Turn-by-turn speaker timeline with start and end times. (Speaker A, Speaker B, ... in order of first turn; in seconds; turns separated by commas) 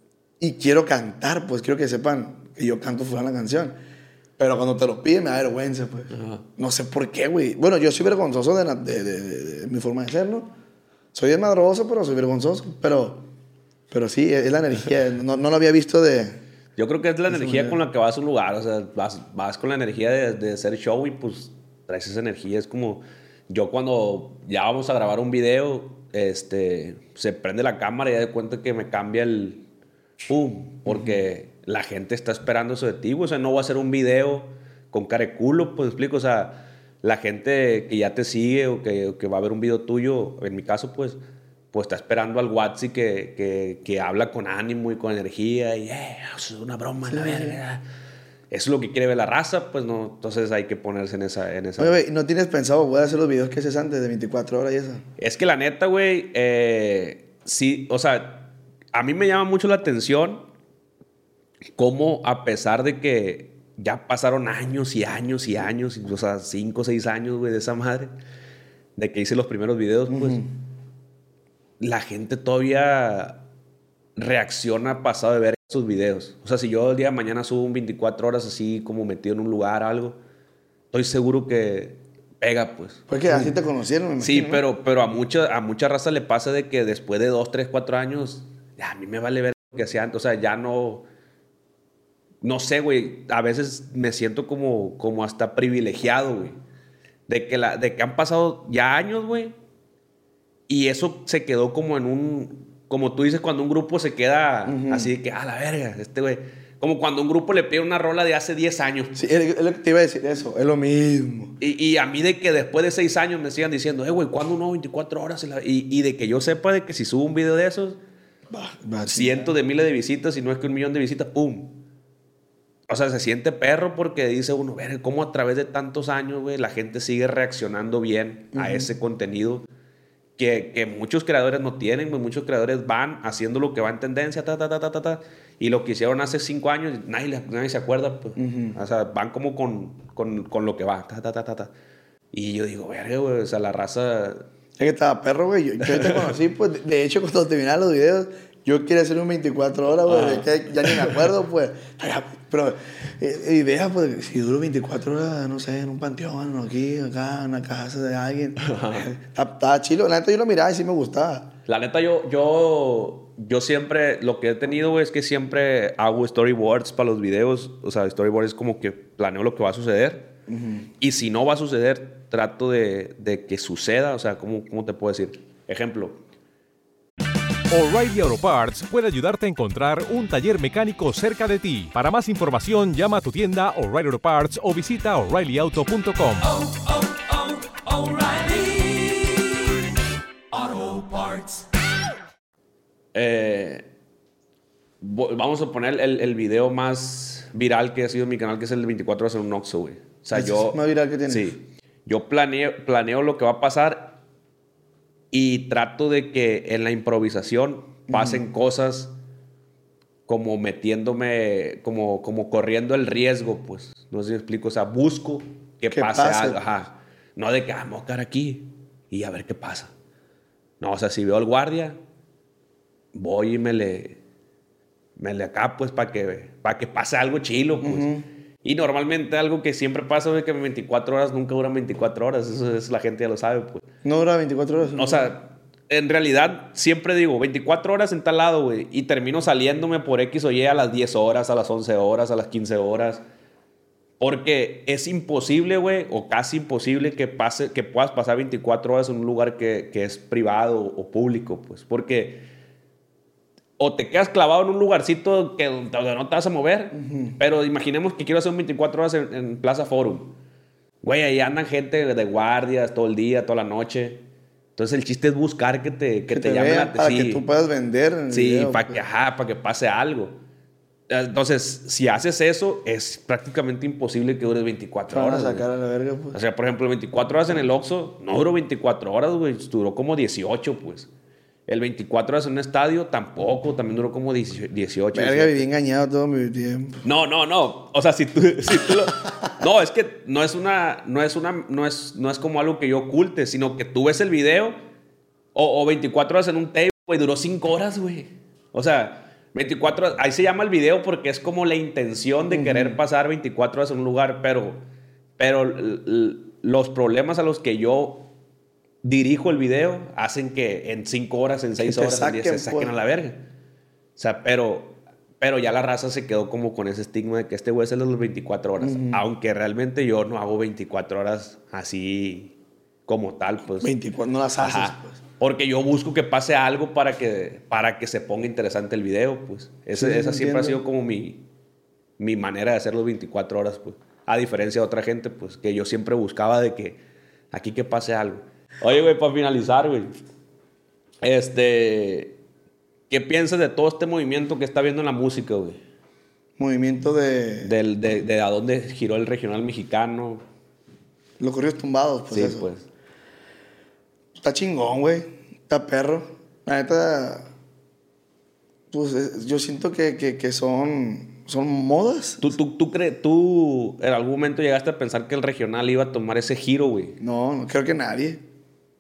Speaker A: 0.4-3.8, Speaker A: 4.4-10.5, Speaker B: 6.1-6.4, Speaker A: 11.1-13.3, Speaker A: 13.9-16.4, Speaker B: 16.8-29.6, Speaker A: 17.3-17.8, Speaker B: 30.3-41.2, Speaker A: 30.9-31.2, Speaker B: 41.7-47.9, Speaker A: 47.1-47.6, Speaker B: 48.5-52.0, Speaker A: 51.8-55.0, Speaker B: 55.2-60.5, Speaker B: 61.8-68.1, Speaker B: 69.0-70.4, Speaker A: 70.1-70.5, Speaker B: 71.8-73.4, Speaker B: 74.2-80.2, Speaker B: 80.9-83.5, Speaker A: 83.1-84.7, Speaker B: 84.2-91.0, Speaker B: 92.4-96.6, Speaker B: 97.3-99.5, Speaker B: 100.7-109.2, Speaker A: 104.7-105.1, Speaker A: 109.2-111.6, Speaker B: 111.6-118.0, Speaker A: 118.5-119.5, Speaker B: 119.0-121.8, Speaker B: 122.9-129.7, Speaker A: 128.5-128.9, Speaker B: 130.4-141.7, Speaker A: 138.4-138.8, Speaker B: 142.3-144.4, Speaker A: 144.8-161.5, Speaker B: 145.9-146.3, Speaker B: 150.1-151.2, Speaker B: 158.6-159.1, Speaker B: 161.7-170.3, Speaker A: 170.5-170.9, Speaker B: 171.0-176.2, Speaker C: 177.7-186.9, Speaker C: 188.0-189.3, Speaker C: 190.5-191.6, Speaker B: 193.1-193.9, Speaker B: 195.0-204.2, Speaker A: 200.3-201.6, Speaker B: 205.3-209.1, Speaker A: 208.1-208.4, Speaker B: 210.3-219.9, Speaker A: 215.9-216.6, Speaker B: 220.8-222.0, Speaker B: 223.1-224.2, Speaker B: 225.2-228.1, Speaker A: 227.8-228.3, Speaker B: 228.6-233.9, Speaker A: 234.0-235.3, Speaker B: 234.8-243.2, Speaker B: 244.2-252.5, Speaker B: 253.8-260.3, Speaker A: 256.9-257.4, Speaker B: 261.0-264.2, Speaker B: 264.8-267.4, Speaker A: 266.3-269.0, Speaker B: 268.3-270.4, Speaker B: 271.1-275.7, Speaker A: 275.1-276.4, Speaker B: 276.3-281.1, Speaker B: 281.7-285.6, Speaker A: 285.1-287.0, Speaker B: 287.0-294.8, Speaker B: 295.6-304.8, Speaker A: 302.5-303.0, Speaker B: 305.4-308.3, Speaker B: 309.0-313.4, Speaker A: 311.8-312.9, Speaker B: 314.2-322.5, Speaker A: 318.8-319.2, Speaker B: 323.1-323.9, Speaker A: 323.8-325.2, Speaker B: 324.6-331.4, Speaker A: 329.9-330.8, Speaker B: 332.2-337.0, Speaker B: 337.5-340.1, Speaker B: 341.2-342.4, Speaker B: 343.1-345.8, Speaker A: 346.6-347.7, Speaker B: 347.6-350.4, Speaker A: 351.4-352.7, Speaker B: 352.3-352.9, Speaker A: 354.4-357.5, Speaker A: 358.9-362.5, Speaker B: 362.4-367.2, Speaker A: 367.2-368.4